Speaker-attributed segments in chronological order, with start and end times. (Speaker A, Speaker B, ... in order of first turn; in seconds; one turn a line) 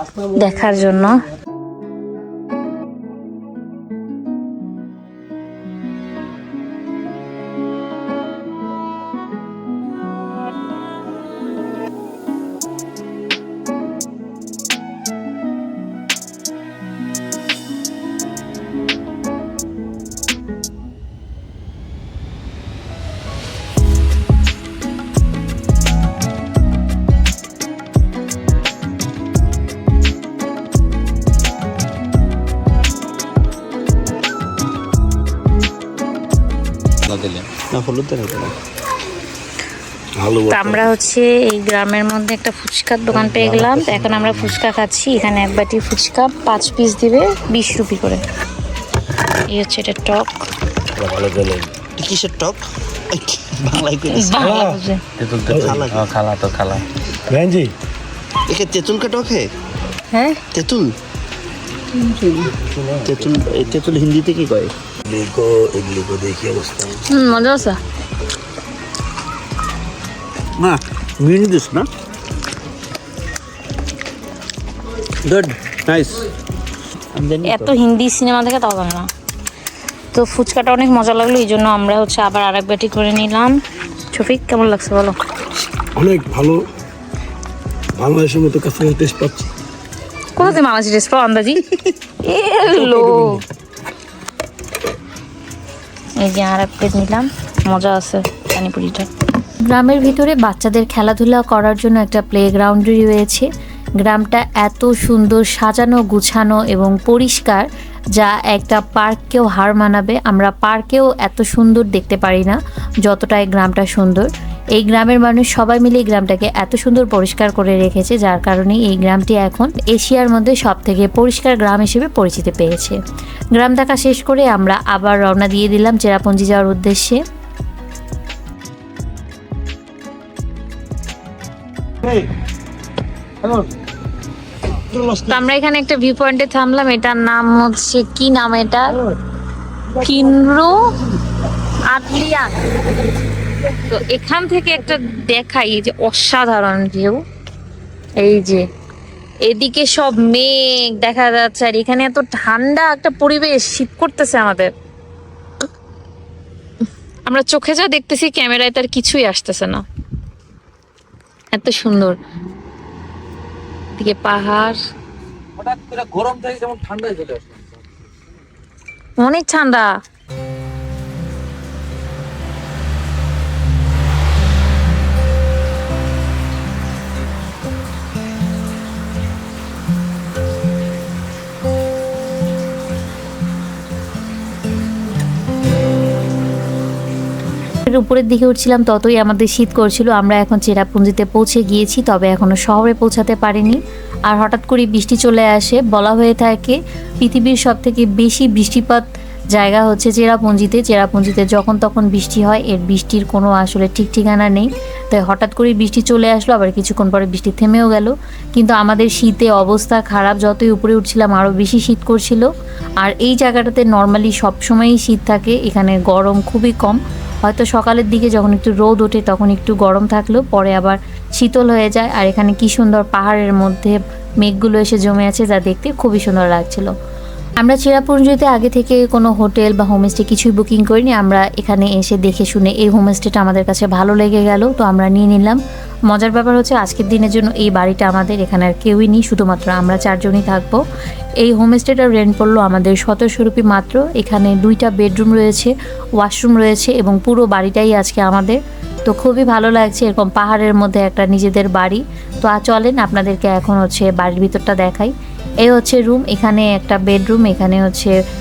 Speaker A: 0.4-1.1
Speaker B: 37.1-37.5
Speaker C: 37.5-38.5
Speaker C: 40.2-41.0
Speaker A: 40.5-48.2
Speaker C: 43.1-44.2
Speaker A: 49.5-50.3
Speaker C: 51.0-54.4
Speaker A: 54.1-55.0
Speaker D: 54.4-54.8
Speaker B: 55.2-56.8
Speaker D: 55.5-56.0
Speaker C: 55.5-56.0
Speaker D: 57.3-57.7
Speaker C: 58.5-59.5
Speaker A: 60.1-60.4
Speaker C: 60.5-61.0
Speaker A: 62.0-62.5
Speaker B: 62.6-63.2
Speaker C: 63.0-64.7
Speaker D: 65.1-67.1
Speaker A: 67.1-67.8
Speaker C: 70.6-71.9
Speaker C: 75.2-76.2
Speaker C: 77.1-77.7
Speaker A: 77.5-79.1
Speaker A: 80.1-83.6
Speaker A: 84.1-85.2
Speaker D: 86.0-86.6
Speaker D: 88.0-89.5
Speaker A: 90.4-91.6
Speaker A: 92.2-93.4
Speaker A: 96.2-99.1
Speaker E: 99.7-103.5
Speaker E: 104.0-123.0
Speaker E: 123.6-127.2
Speaker D: 134.9-135.3
Speaker A: 135.3-139.0
Speaker A: 140.0-140.8
Speaker A: 141.9-142.6
Speaker A: 143.8-147.2
Speaker A: 148.2-148.6
Speaker A: 149.5-154.7
Speaker A: 157.3-159.8
Speaker A: 161.5-162.2
Speaker A: 164.0-164.8
Speaker B: 165.6-167.8
Speaker A: 169.2-169.9
Speaker E: 187.9-212.5
Speaker E: 213.0-226.9
Speaker E: 227.6-240.8
Speaker E: 241.4-258.1